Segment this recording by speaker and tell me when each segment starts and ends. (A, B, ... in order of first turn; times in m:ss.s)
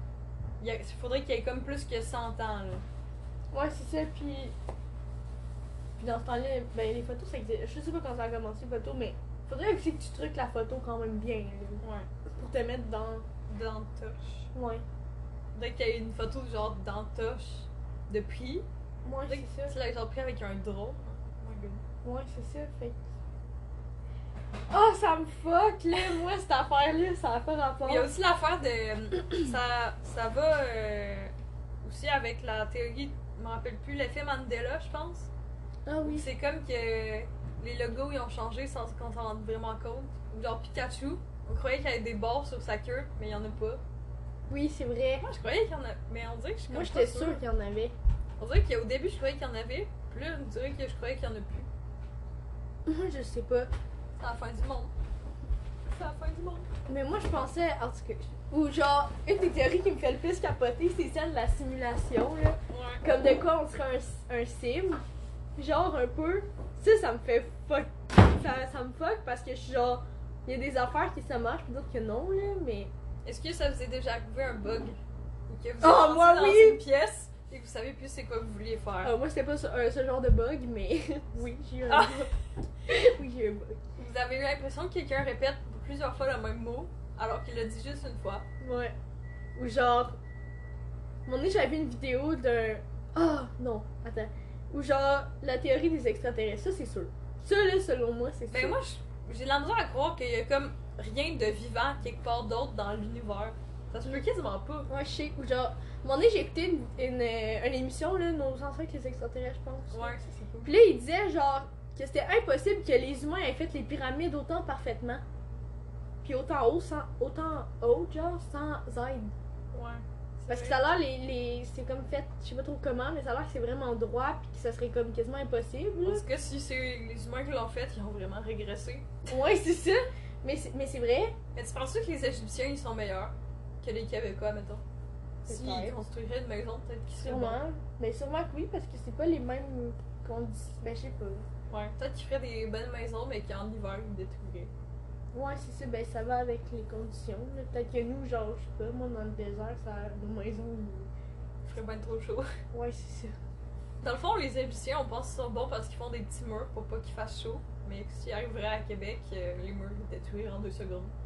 0:00.6-0:02.8 A
0:03.5-0:04.5 B
0:06.0-0:11.8 B
0:11.8-0:12.1 A
0:12.4-0:13.2 B
0:13.5-0:14.5 A
0:14.5-0:14.8 B
0:15.5-0:18.7 A
0:19.0-0:19.8 B
0:19.3-0:21.8 A
0:22.0-0:23.0 B
0:24.7-0:28.1 B
0:27.8-0:35.3 A
0:35.9-0:36.3 B
0:36.0-0:43.8 A
0:44.5-0:45.3 B
0:45.2-0:47.4 A
0:46.7-0:48.0 B
0:48.4-0:51.7 A
0:52.9-0:53.7 B
0:54.2-0:54.9 A
0:55.9-0:56.7 A
0:56.9-1:05.0 B
1:02.7-1:03.0 A
1:05.6-1:12.9 B
1:13.2-1:19.1 A
1:15.8-1:16.8 B
1:19.0-1:22.3 B
1:21.9-1:22.3 A
1:22.9-1:23.8 B
1:24.0-1:28.5 A
1:28.6-1:29.0 B
1:29.6-1:30.2 B
1:31.3-1:38.8 B
1:38.5-1:44.9 A
1:44.9-1:55.2 B
1:49.9-1:50.8 A
1:56.2-1:59.3 B
1:59.7-2:00.8 A
2:00.5-2:06.2 B
2:06.0-2:09.1 A
2:09.3-2:11.4 B
2:11.6-2:14.8 A
2:15.4-2:17.6 A
2:15.5-2:16.0 B
2:17.2-2:21.5 B
2:21.7-2:24.7 A
2:25.3-2:31.1 B
2:31.6-2:32.5 A
2:32.7-2:33.4 B
2:34.0-2:41.2 A